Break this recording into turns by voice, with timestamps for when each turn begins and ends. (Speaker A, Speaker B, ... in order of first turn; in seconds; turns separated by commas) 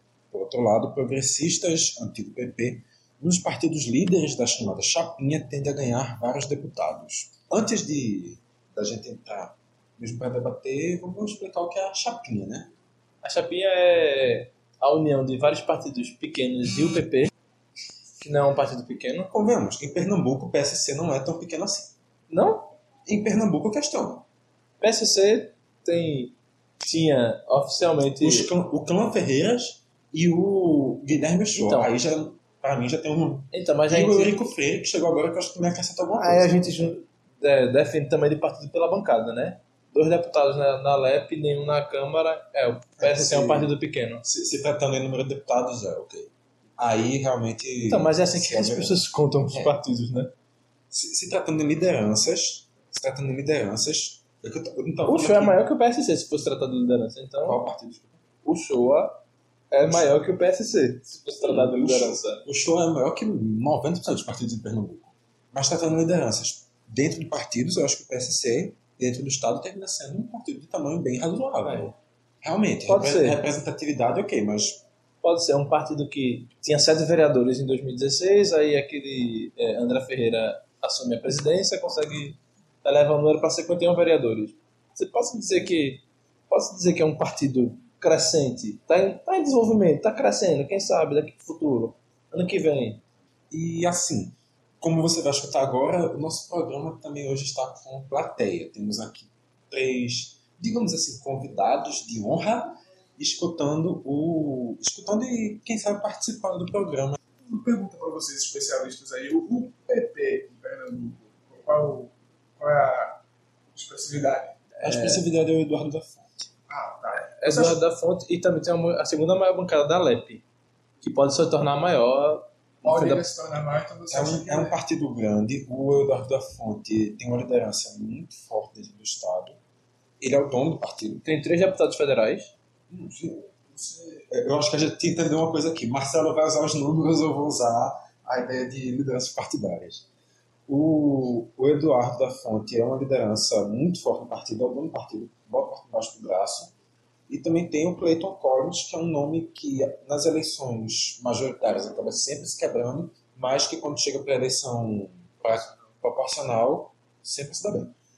Speaker A: 0.3-12.7, Speaker B: 13.2-17.3, Speaker B: 18.2-19.3, Speaker A: 19.3-21.9, Speaker B: 22.3-22.7, Speaker A: 23.1-24.3, Speaker B: 24.8-28.5, Speaker A: 28.2-36.9, Speaker B: 31.5-31.9, Speaker B: 33.5-34.5, Speaker B: 36.2-44.2, Speaker A: 43.0-43.7, Speaker A: 44.2-49.0, Speaker B: 47.9-50.3, Speaker A: 49.5-49.8, Speaker A: 50.9-55.7, Speaker B: 55.1-57.6, Speaker A: 57.5-58.2, Speaker B: 58.4-62.5, Speaker A: 59.9-60.2, Speaker A: 61.4-74.8, Speaker B: 71.6-72.0, Speaker B: 72.9-73.4, Speaker B: 75.2-93.0, Speaker A: 93.5-107.2, Speaker C: 107.5-113.2, Speaker C: 113.7-114.6, Speaker B: 114.8-115.2, Speaker A: 114.8-116.5, Speaker C: 116.7-117.8, Speaker B: 117.2-120.4, Speaker B: 121.0-123.3, Speaker C: 122.8-124.8, Speaker A: 124.1-129.6, Speaker A: 130.2-131.2, Speaker B: 131.2-132.5, Speaker A: 132.9-140.1, Speaker A: 140.7-146.8, Speaker A: 147.3-157.9